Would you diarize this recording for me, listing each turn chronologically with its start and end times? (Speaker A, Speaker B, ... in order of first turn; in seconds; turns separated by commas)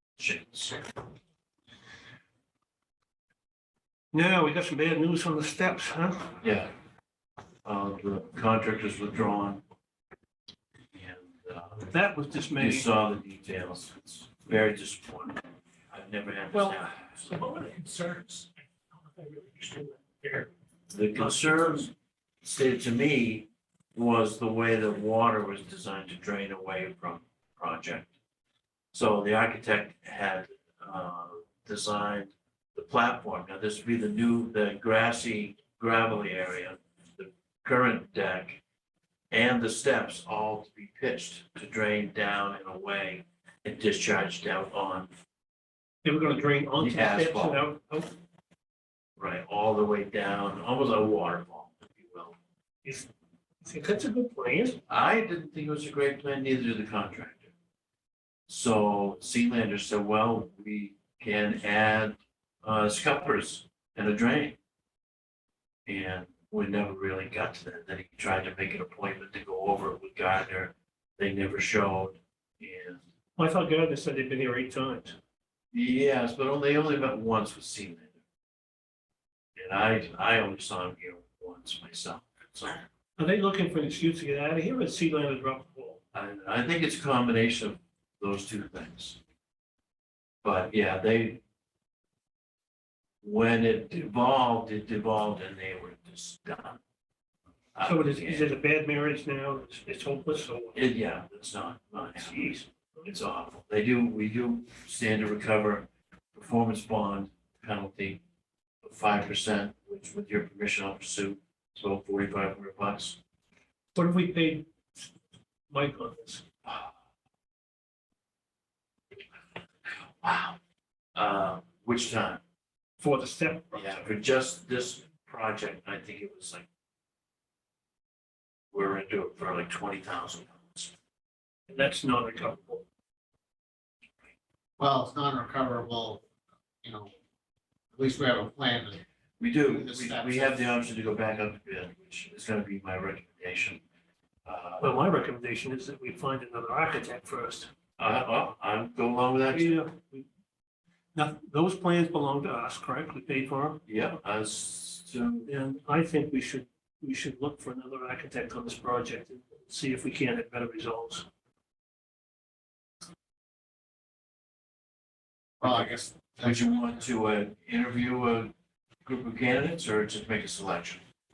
Speaker A: 0.2-0.8, Speaker B: 4.1-6.4, Speaker A: 6.4-6.7, Speaker A: 7.7-9.6, Speaker A: 10.9-11.9, Speaker B: 11.9-12.9, Speaker A: 12.6-17.3, Speaker B: 16.5-20.5, Speaker A: 20.9-21.9, Speaker A: 22.4-28.1, Speaker A: 28.9-38.6, Speaker A: 39.3-45.1, Speaker B: 46.0-48.1, Speaker A: 46.8-47.7, Speaker A: 49.2-52.4, Speaker B: 52.8-53.1, Speaker B: 53.6-54.8, Speaker A: 54.9-57.5, Speaker A: 58.5-64.6, Speaker A: 65.9-73.0, Speaker B: 73.4-75.2, Speaker A: 75.7-78.2, Speaker A: 79.6-82.8, Speaker B: 83.2-86.0, Speaker A: 86.1-89.2, Speaker A: 90.4-91.4, Speaker A: 93.2-96.8, Speaker A: 97.8-98.5, Speaker B: 97.8-100.9, Speaker A: 100.8-108.2, Speaker B: 102.2-103.1, Speaker A: 108.8-113.2, Speaker B: 114.0-115.1, Speaker B: 115.7-116.4, Speaker A: 116.7-116.9, Speaker A: 119.9-120.6, Speaker A: 121.2-122.4, Speaker B: 123.0-124.0, Speaker A: 123.7-126.7, Speaker A: 128.7-130.9, Speaker B: 131.7-132.8, Speaker C: 134.8-136.2, Speaker C: 136.8-137.1, Speaker C: 137.9-139.0, Speaker A: 139.4-143.8, Speaker C: 139.6-140.6, Speaker A: 144.5-145.0, Speaker B: 144.8-147.7, Speaker A: 148.0-149.8, Speaker B: 149.5-150.3, Speaker B: 151.2-153.8, Speaker A: 153.9-155.5, Speaker B: 155.5-161.3, Speaker C: 165.6-166.8, Speaker A: 166.4-168.5, Speaker A: 169.0-171.0